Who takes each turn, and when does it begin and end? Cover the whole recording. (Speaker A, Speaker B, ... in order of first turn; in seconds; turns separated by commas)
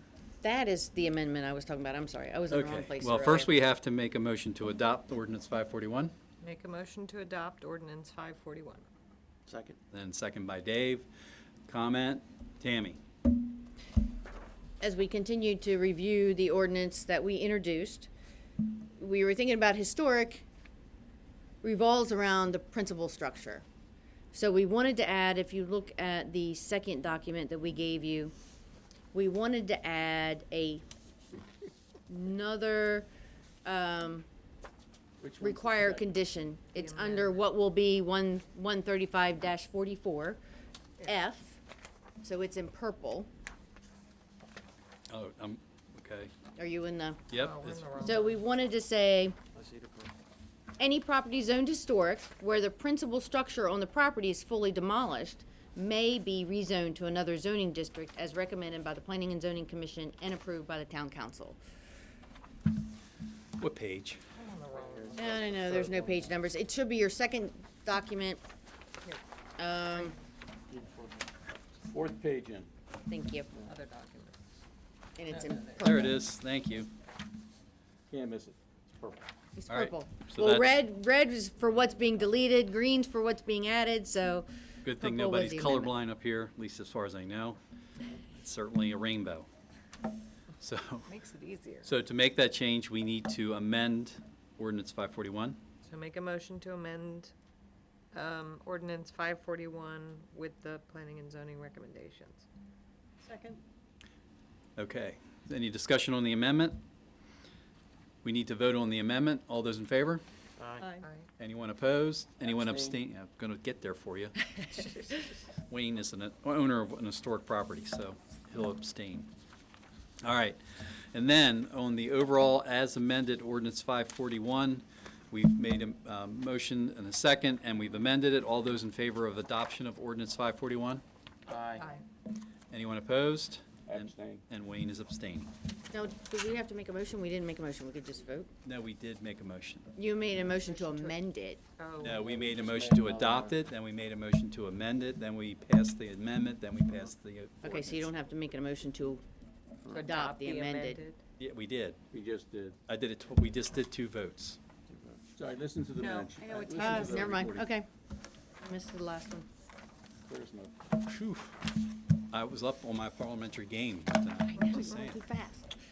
Speaker A: 0.4-3.5, Speaker B: 2.5-6.1, Speaker C: 6.4-8.9, Speaker D: 9.5-9.8, Speaker B: 9.9-11.1, Speaker B: 11.7-13.0, Speaker A: 14.8-18.1, Speaker A: 19.0-20.4, Speaker A: 21.6-23.6, Speaker A: 24.3-28.3, Speaker A: 29.1-30.8, Speaker A: 32.1-33.1, Speaker A: 33.6-34.2, Speaker D: 35.2-36.1, Speaker A: 35.4-40.4, Speaker C: 36.8-37.4, Speaker A: 41.0-41.6, Speaker A: 42.2-43.3, Speaker B: 45.1-46.3, Speaker A: 46.6-47.3, Speaker B: 47.3-48.1, Speaker C: 47.3-48.4, Speaker A: 48.0-49.4, Speaker D: 49.5-50.1, Speaker A: 50.8-61.6, Speaker B: 63.6-64.2, Speaker C: 64.3-65.4, Speaker D: 64.7-66.3, Speaker A: 65.2-68.4, Speaker A: 69.6-70.2, Speaker D: 70.7-71.3, Speaker D: 71.9-72.7, Speaker A: 73.1-73.5, Speaker C: 73.7-74.4, Speaker A: 75.2-76.2, Speaker B: 75.8-76.9, Speaker D: 78.1-79.3, Speaker A: 79.6-84.5, Speaker B: 79.7-80.8, Speaker B: 84.8-87.6, Speaker A: 85.0-85.9, Speaker B: 88.2-89.5, Speaker B: 90.6-91.1, Speaker C: 91.1-91.9, Speaker B: 91.8-95.6, Speaker C: 95.8-97.3, Speaker C: 98.1-102.5, Speaker C: 103.2-103.6, Speaker B: 104.8-106.8, Speaker B: 108.2-110.2, Speaker D: 110.6-110.9, Speaker C: 110.8-111.3, Speaker B: 111.4-114.4, Speaker D: 112.5-113.0, Speaker C: 114.8-115.1, Speaker B: 115.7-119.3, Speaker B: 120.2-131.0, Speaker D: 131.5-131.8, Speaker C: 131.8-132.0, Speaker B: 132.7-135.5, Speaker D: 133.9-134.4, Speaker A: 135.9-138.5, Speaker B: 138.6-139.9, Speaker A: 140.0-141.6, Speaker C: 140.6-141.2, Speaker C: 141.8-142.2, Speaker B: 142.0-148.1, Speaker D: 142.2-143.5, Speaker A: 147.6-149.2, Speaker C: 149.9-151.2, Speaker A: 149.9-151.0, Speaker B: 151.4-152.0, Speaker D: 152.1-152.8, Speaker B: 152.9-154.6, Speaker D: 154.9-157.7, Speaker C: 155.9-157.6, Speaker A: 156.7-157.9, Speaker A: 158.6-159.4, Speaker D: 160.2-160.7, Speaker B: 161.1-161.6, Speaker B: 162.3-165.2, Speaker A: 164.6-165.7